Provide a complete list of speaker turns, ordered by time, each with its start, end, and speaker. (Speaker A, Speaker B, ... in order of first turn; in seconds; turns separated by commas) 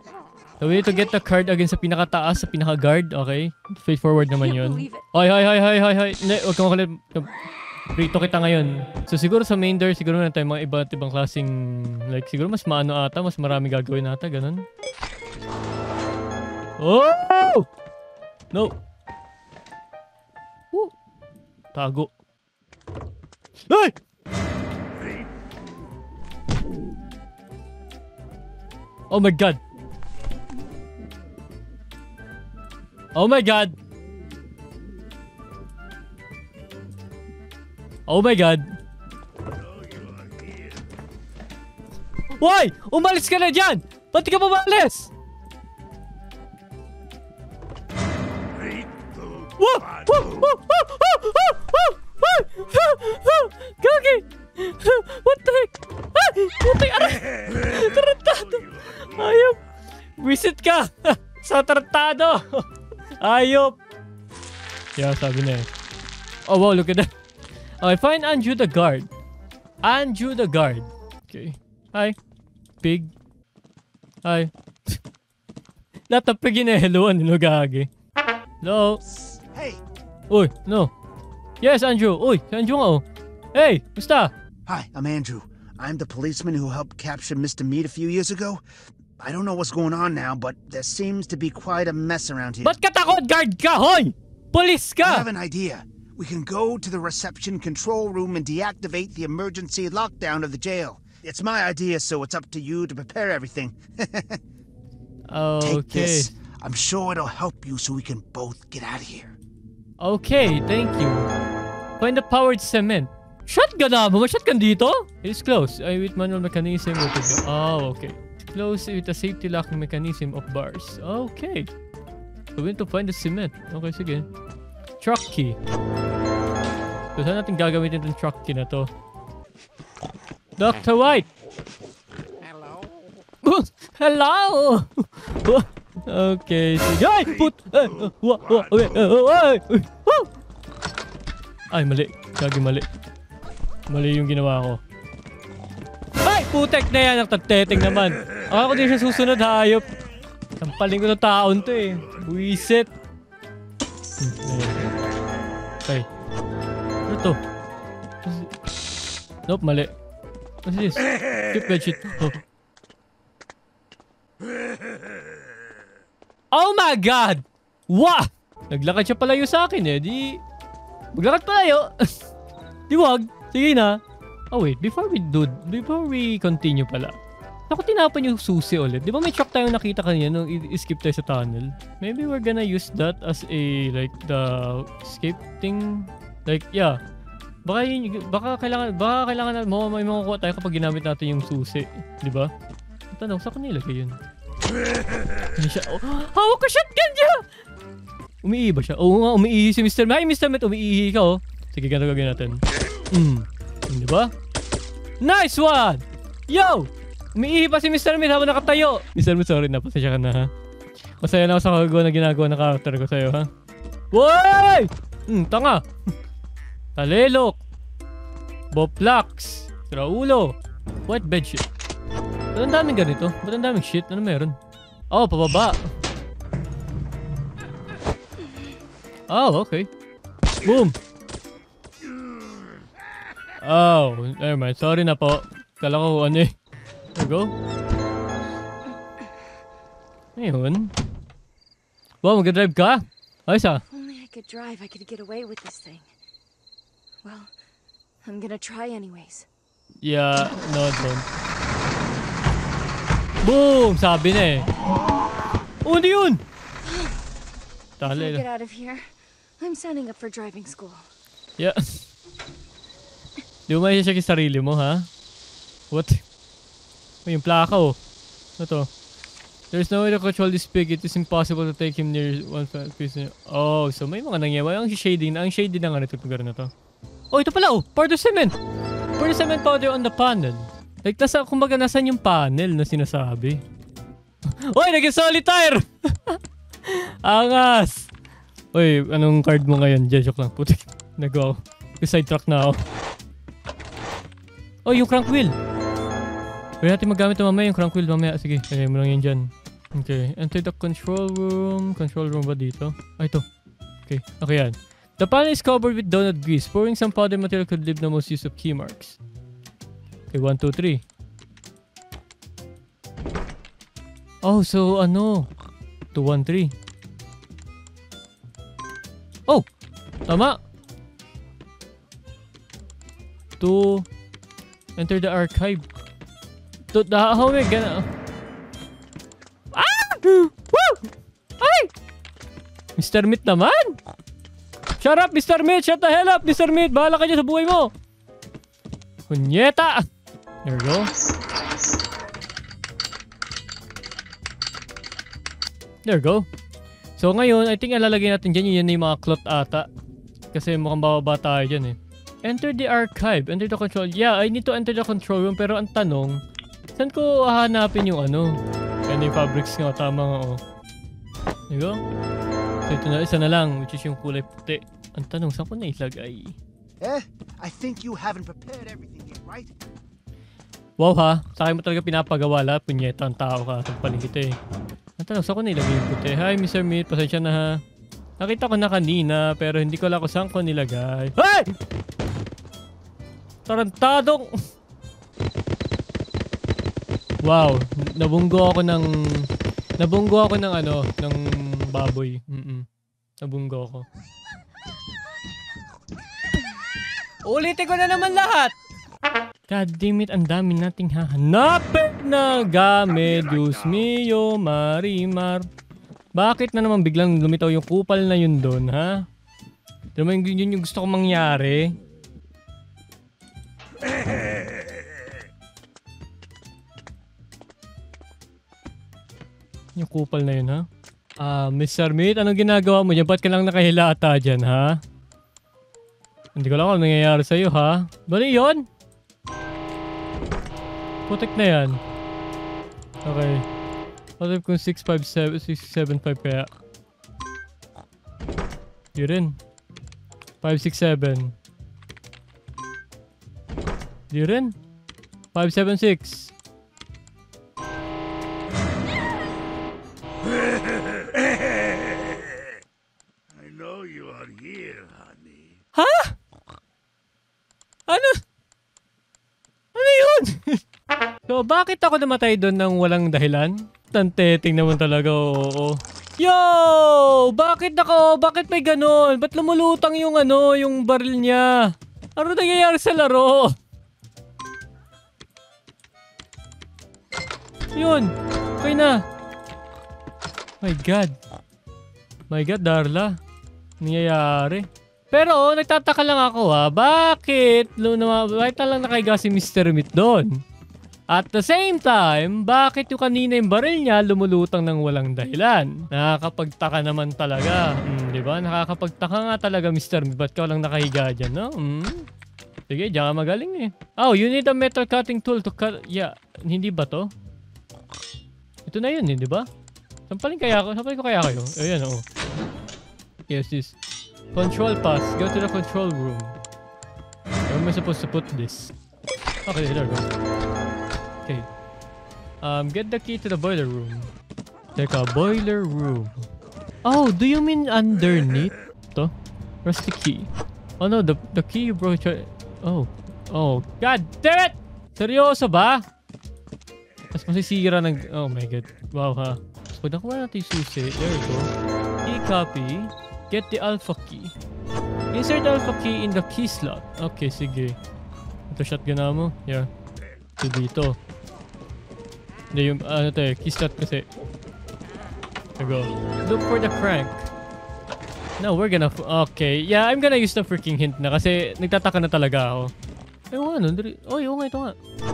Speaker A: 0.6-7.3, Speaker B: 4.3-5.0, Speaker A: 7.9-14.6, Speaker A: 16.8-17.7, Speaker A: 21.7-22.1, Speaker A: 23.7-23.9, Speaker A: 29.1-29.6, Speaker A: 33.1-33.8, Speaker A: 38.1-38.7, Speaker C: 39.5-40.8, Speaker A: 42.4-45.1, Speaker C: 48.5-50.3, Speaker A: 49.5-59.6, Speaker C: 58.5-59.4, Speaker A: 60.2-62.7, Speaker A: 63.2-63.8, Speaker A: 65.0-65.7, Speaker A: 66.5-67.1, Speaker A: 67.8-69.1, Speaker A: 69.8-72.1, Speaker A: 72.8-73.1, Speaker A: 74.2-75.0, Speaker A: 76.1-77.9, Speaker A: 78.6-79.0, Speaker D: 79.5-79.8, Speaker A: 80.3-80.9, Speaker A: 81.6-84.3, Speaker D: 84.7-88.6, Speaker D: 89.2-92.7, Speaker A: 92.6-95.3, Speaker D: 95.0-104.4, Speaker A: 105.3-106.3, Speaker D: 105.6-109.3, Speaker A: 110.0-111.3, Speaker A: 112.0-121.7, Speaker A: 122.5-124.3, Speaker A: 125.0-125.6, Speaker A: 127.2-128.9, Speaker A: 130.6-131.3, Speaker A: 133.4-140.3, Speaker A: 141.7-142.8, Speaker A: 143.9-144.8, Speaker A: 146.2-149.9, Speaker A: 150.6-152.9, Speaker A: 154.2-154.9, Speaker A: 157.0-157.4, Speaker A: 158.2-158.5, Speaker A: 159.5-159.9, Speaker A: 160.6-162.4, Speaker A: 166.5-170.4, Speaker A: 171.2-172.1, Speaker A: 172.9-174.0, Speaker A: 174.5-177.1, Speaker A: 177.7-187.0, Speaker A: 187.7-192.5, Speaker A: 193.1-194.2, Speaker A: 195.6-197.4, Speaker A: 198.4-204.3, Speaker A: 205.2-210.5, Speaker A: 211.2-213.5, Speaker A: 214.1-215.8, Speaker A: 217.0-217.6, Speaker A: 218.7-220.5, Speaker A: 221.1-221.6, Speaker A: 222.5-224.6, Speaker A: 225.1-225.8, Speaker A: 229.3-229.9, Speaker A: 230.6-230.9, Speaker A: 233.6-236.5, Speaker A: 237.1-237.5, Speaker A: 240.3-240.9, Speaker A: 242.2-243.8, Speaker B: 243.9-246.1, Speaker B: 247.2-247.5, Speaker B: 248.2-249.5, Speaker A: 250.0-251.2, Speaker A: 253.4-254.7, Speaker A: 255.8-256.4, Speaker B: 256.9-257.1, Speaker A: 258.0-258.4, Speaker B: 258.0-261.0, Speaker A: 261.6-262.0, Speaker A: 263.7-265.1, Speaker A: 265.9-266.2, Speaker A: 267.2-267.9, Speaker A: 268.6-268.9, Speaker A: 269.7-276.7, Speaker A: 277.3-278.6, Speaker A: 279.2-283.6, Speaker A: 284.5-288.1, Speaker A: 288.7-292.8, Speaker A: 294.8-295.5, Speaker A: 296.8-303.4, Speaker A: 304.1-309.2, Speaker A: 310.3-311.0, Speaker A: 314.4-315.5, Speaker A: 316.1-316.7, Speaker A: 320.3-320.6, Speaker A: 323.6-324.1, Speaker A: 325.0-325.8, Speaker A: 326.9-328.1, Speaker A: 329.7-331.1, Speaker A: 331.6-331.9, Speaker A: 333.0-334.0, Speaker A: 335.0-337.9, Speaker A: 339.3-340.0, Speaker A: 340.6-341.1, Speaker A: 346.1-346.4, Speaker A: 347.2-349.9, Speaker A: 350.5-356.4, Speaker A: 357.0-358.6, Speaker A: 359.1-360.6, Speaker A: 361.7-362.0, Speaker A: 362.9-366.6, Speaker D: 367.0-369.7, Speaker A: 371.0-374.6, Speaker A: 375.2-377.8, Speaker A: 378.4-381.7, Speaker A: 383.7-384.5, Speaker A: 387.4-389.4, Speaker A: 390.0-392.8, Speaker A: 393.4-394.1, Speaker A: 397.4-398.7, Speaker A: 399.7-405.6, Speaker A: 406.4-409.2, Speaker A: 410.1-411.9, Speaker A: 420.0-420.9, Speaker A: 421.4-425.0, Speaker A: 426.6-428.9, Speaker A: 431.3-432.0, Speaker A: 433.2-433.6, Speaker A: 434.4-436.7, Speaker A: 439.1-439.6, Speaker A: 440.6-441.5, Speaker A: 444.3-444.7, Speaker A: 445.5-446.5, Speaker C: 450.8-451.6, Speaker C: 453.5-455.8, Speaker A: 455.9-456.3, Speaker A: 458.1-458.4, Speaker A: 459.9-460.8, Speaker A: 461.5-473.7, Speaker A: 477.9-479.2, Speaker A: 480.8-481.4, Speaker A: 482.5-483.3, Speaker A: 484.0-490.6, Speaker A: 491.3-502.3, Speaker A: 502.9-507.3, Speaker A: 508.9-509.7, Speaker A: 510.3-512.2, Speaker A: 513.5-513.9, Speaker A: 514.5-516.5, Speaker A: 517.7-518.9, Speaker A: 519.7-520.2, Speaker A: 522.6-524.3, Speaker A: 525.0-526.5, Speaker A: 527.0-529.3, Speaker A: 529.8-530.5, Speaker A: 531.0-536.0, Speaker A: 537.3-541.7, Speaker A: 542.2-544.5, Speaker A: 545.3-548.0, Speaker A: 548.7-549.9, Speaker A: 550.6-551.2, Speaker A: 552.7-554.2, Speaker A: 555.8-557.5, Speaker A: 558.6-562.9, Speaker A: 563.5-565.0